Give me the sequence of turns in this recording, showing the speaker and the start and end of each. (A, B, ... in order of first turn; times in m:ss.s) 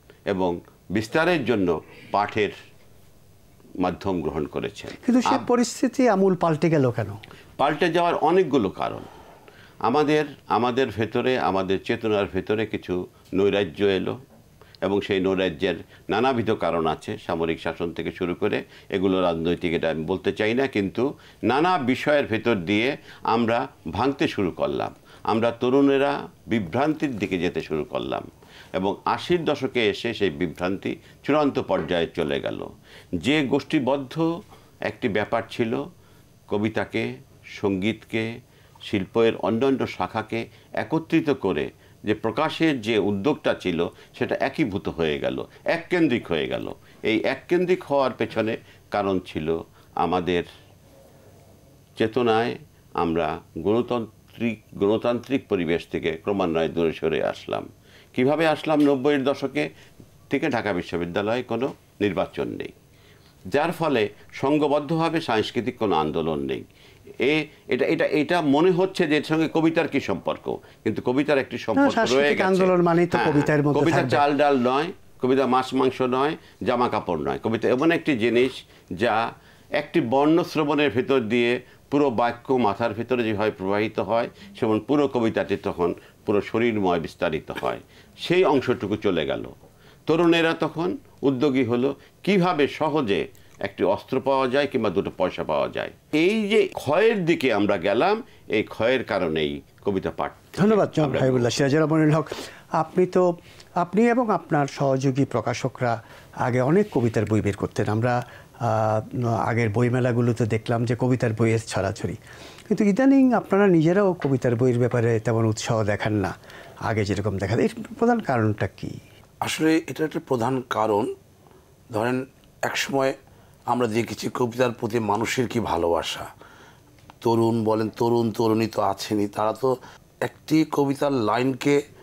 0:00.3-0:02.5 A
0:03.8-0:05.4 A
0:05.0-0:07.2 B
0:07.6-0:09.1 A
0:09.9-0:14.1 A
0:14.8-0:28.3 A
0:28.8-0:32.7 A
0:33.2-0:34.2 A
0:34.9-0:35.8 A
0:36.5-0:38.2 A
0:38.9-0:50.5 A
0:52.0-0:59.7 A
1:00.3-1:02.7 A
1:03.5-1:06.6 A
1:07.2-1:19.2 A
1:11.8-1:14.2 B
1:19.8-1:29.5 A
1:30.1-1:41.6 A
1:40.6-1:43.3 B
1:43.8-1:52.2 B
1:52.7-1:56.4 B
1:56.9-1:59.0 B
1:59.4-2:01.1 C
2:01.9-2:03.2 C
2:03.7-2:06.3 C
2:07.2-2:11.8 C